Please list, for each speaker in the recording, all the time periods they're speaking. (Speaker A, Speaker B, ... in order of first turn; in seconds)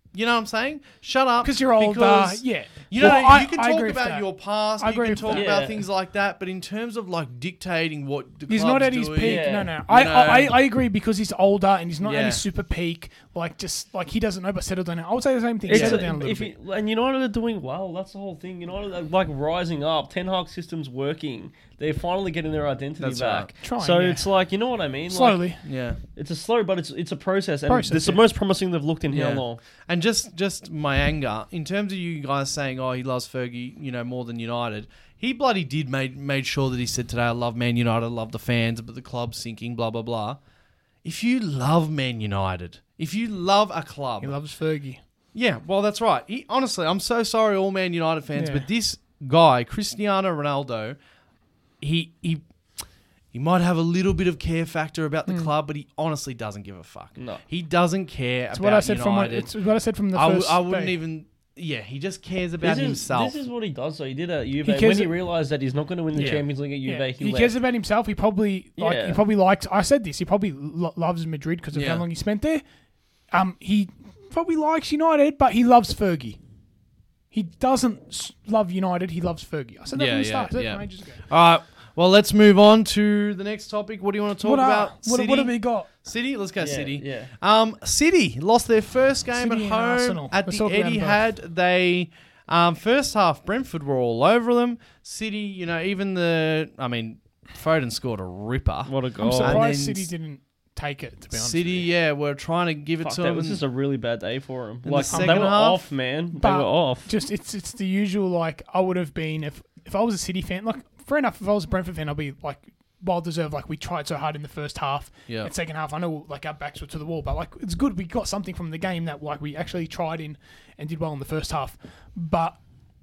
Speaker A: 0.1-10.6, 12.0-12.4, 15.7-16.0, 23.0-23.5, 25.6-26.0, 29.1-40.4, 41.0-44.3, 45.3-51.0, 51.8-52.4, 53.3-59.5, 60.1-63.4, 66.1-66.4, 71.7-72.0, 79.9-100.1, 101.3-103.6, 104.8-105.8
Speaker B: 1.4-4.3, 4.8-5.5, 8.5-16.5, 23.6-24.3, 25.1-25.6, 27.7-28.2, 44.2-45.0, 48.4-48.7, 58.5-61.0, 64.6-65.1, 66.2-72.6, 73.3-76.4, 77.3-81.2, 84.4-85.9, 89.3-91.2, 99.2-101.9, 105.1-105.6, 106.3-122.6
Speaker C: 5.3-5.8, 9.2-9.7, 15.7-25.4, 26.1-29.6, 57.2-57.4, 62.6-67.6, 68.8-69.2, 86.6-87.3, 98.8-99.7, 103.0-107.1